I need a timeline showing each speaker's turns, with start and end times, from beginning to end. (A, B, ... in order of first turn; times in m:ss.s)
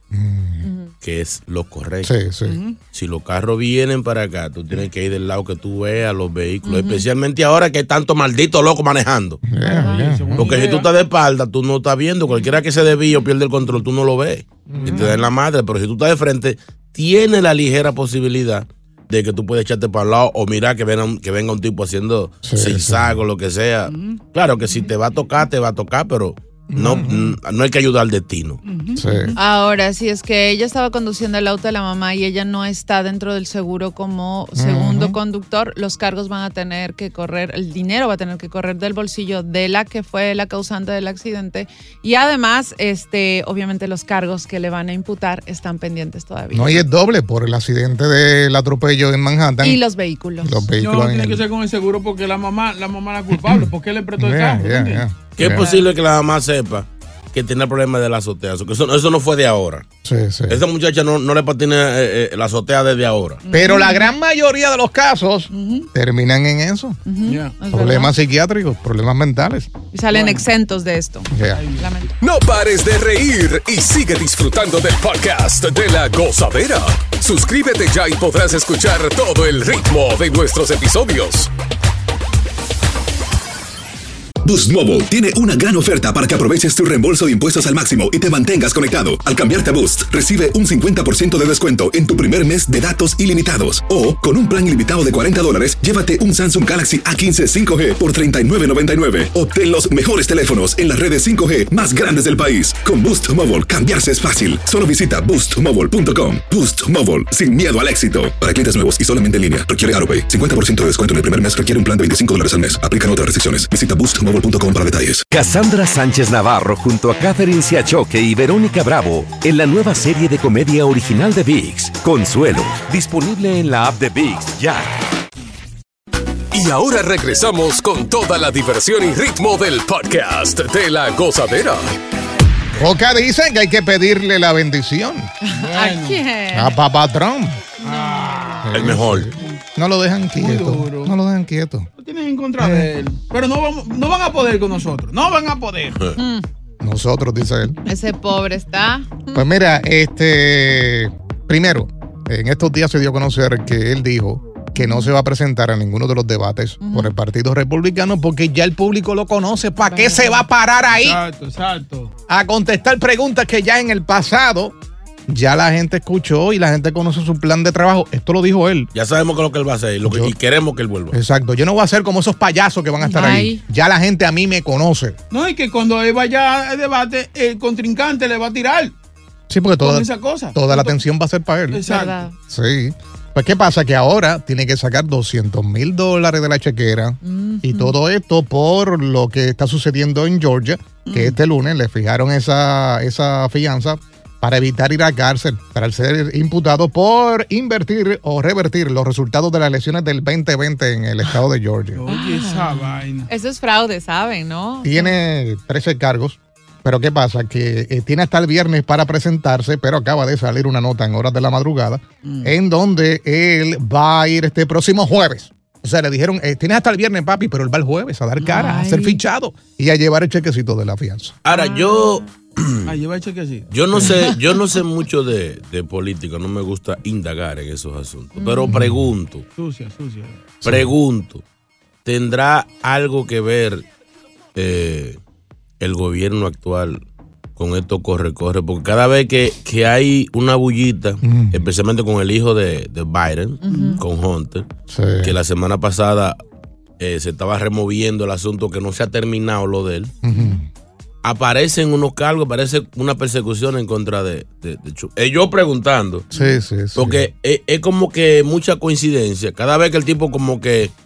0:00.1-0:00.7 A
0:00.6-0:00.9 B
0:01.0-0:02.1 C
0:02.0-0:02.6 A
0:02.4-0:02.8 D
0:02.9-0:09.4 C
0:06.6-0:07.1 B
0:09.5-0:10.5 A
0:09.6-0:10.1 B
0:09.6-0:10.9 D
0:10.4-0:28.6 C
0:14.7-0:15.2 A
0:22.4-0:23.2 A
0:23.9-0:24.2 D
0:26.7-0:27.4 A
0:28.6-0:29.3 D
0:29.0-0:29.4 A
0:29.4-0:46.9 B
0:34.6-0:35.2 A
0:46.5-0:49.8 A
0:49.6-0:50.7 B
0:50.4-0:51.5 A
0:50.8-0:55.8 D
0:53.4-0:55.7 A
0:55.4-0:59.9 C
0:55.4-0:55.8 B
1:00.0-1:00.6 A
1:00.5-1:03.4 C
1:03.4-1:04.1 D
1:03.5-1:07.0 A
1:05.5-1:05.9 D
1:07.1-1:08.1 B
1:07.3-1:07.6 D
1:07.7-1:09.7 A
1:09.9-1:12.1 B
1:10.1-1:10.4 D
1:11.3-1:11.6 A
1:11.5-1:11.9 D
1:12.2-1:21.5 E
1:24.4-1:55.3 F
1:55.3-2:04.9 G
2:06.5-2:12.0 E
2:12.8-2:15.3 A
2:15.4-2:16.7 B
2:15.5-2:16.2 D
2:16.5-2:17.6 A
2:17.8-2:19.6 D
2:17.8-2:18.7 B
2:18.7-2:21.9 A
2:18.7-2:19.3 C
2:20.4-2:21.2 D
2:22.0-2:26.0 D
2:22.6-2:22.9 A
2:26.2-2:26.4 B
2:26.8-2:27.8 A
2:27.9-2:29.4 B
2:29.3-2:41.2 A
2:34.8-2:35.1 B
2:36.8-2:37.2 B
2:39.8-2:40.4 B
2:40.9-2:42.1 D
2:42.3-2:44.8 A
2:45.3-2:48.9 A
2:48.9-2:51.2 C
2:50.0-2:50.3 A
2:51.1-2:55.2 A
2:53.0-2:53.6 B
2:55.3-2:59.0 D
2:59.5-3:01.8 A
2:59.8-3:00.9 D
3:01.7-3:02.2 D
3:01.8-3:02.3 B
3:02.5-3:22.0 A
3:07.2-3:08.0 B
3:11.1-3:11.4 D
3:22.0-3:23.3 D
3:22.1-3:25.1 B
3:24.8-3:41.4 A
3:32.2-3:32.6 D
3:38.4-3:39.2 B
3:41.4-3:42.9 C
3:42.9-3:44.4 D
3:43.7-3:49.5 C
3:48.4-3:48.7 B
3:48.7-3:49.1 A
3:49.6-3:50.5 D
3:50.6-3:51.4 C
3:50.6-3:50.9 A
3:52.0-3:53.9 C
3:54.6-3:55.2 C
3:55.8-3:57.0 C
3:57.6-4:04.7 C
4:01.2-4:01.6 A
4:03.6-4:04.0 B
4:03.6-4:04.0 D
4:04.9-4:05.4 A
4:05.2-4:06.4 C
4:07.0-4:10.1 C
4:10.2-4:10.6 A
4:11.2-4:16.3 C
4:16.3-4:17.3 A
4:17.0-4:20.9 C